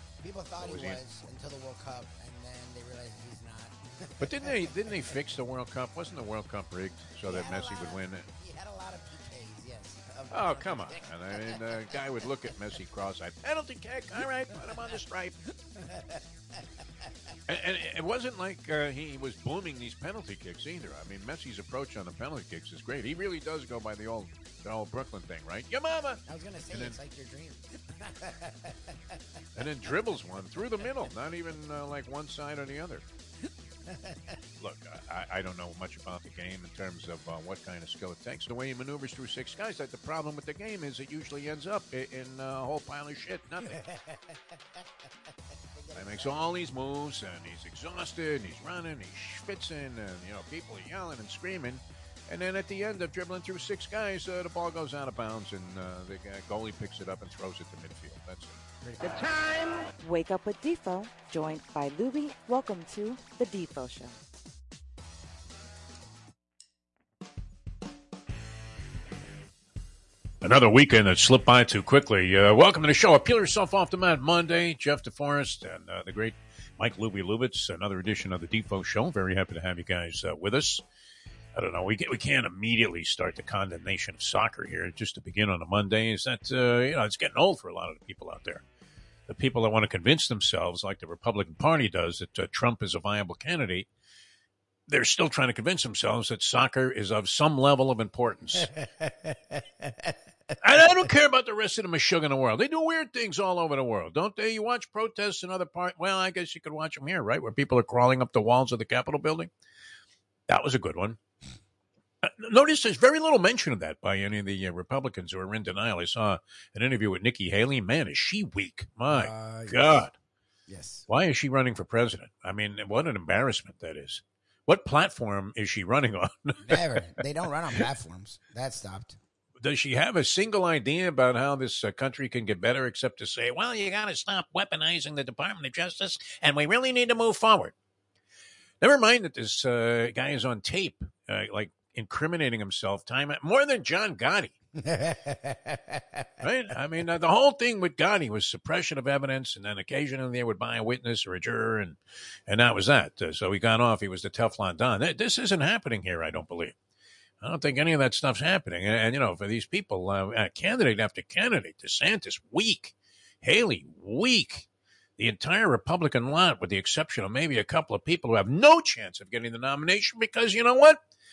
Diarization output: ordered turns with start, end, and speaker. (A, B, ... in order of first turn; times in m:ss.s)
0:00.2-0:04.7 A
0:00.6-0:01.0 B
0:04.2-0:08.3 B
0:07.3-0:12.0 A
0:10.3-0:15.4 B
0:15.7-0:16.2 A
0:17.5-0:27.0 B
0:26.2-0:28.9 A
0:29.6-0:33.0 B
0:33.9-0:34.4 A
0:34.6-0:43.8 B
0:43.6-0:44.4 A
0:45.7-0:46.4 A
0:45.9-0:58.6 B
0:58.8-0:59.1 A
1:00.0-1:04.1 C
1:10.4-1:20.8 B
1:21.5-1:28.6 B
1:29.3-1:33.9 B
1:34.9-1:38.7 B
1:38.8-1:40.1 A
1:40.6-1:49.5 B
1:50.5-1:51.2 B
1:52.2-2:00.1 B
1:59.1-2:00.0 A
2:00.7-2:01.0 A
2:01.1-2:07.2 B
2:06.6-2:09.2 A
2:09.6-2:17.7 B
2:18.8-2:24.5 B
2:24.8-2:26.3 A
2:26.4-2:36.7 B
2:37.4-2:44.7 B
2:45.2-2:51.0 B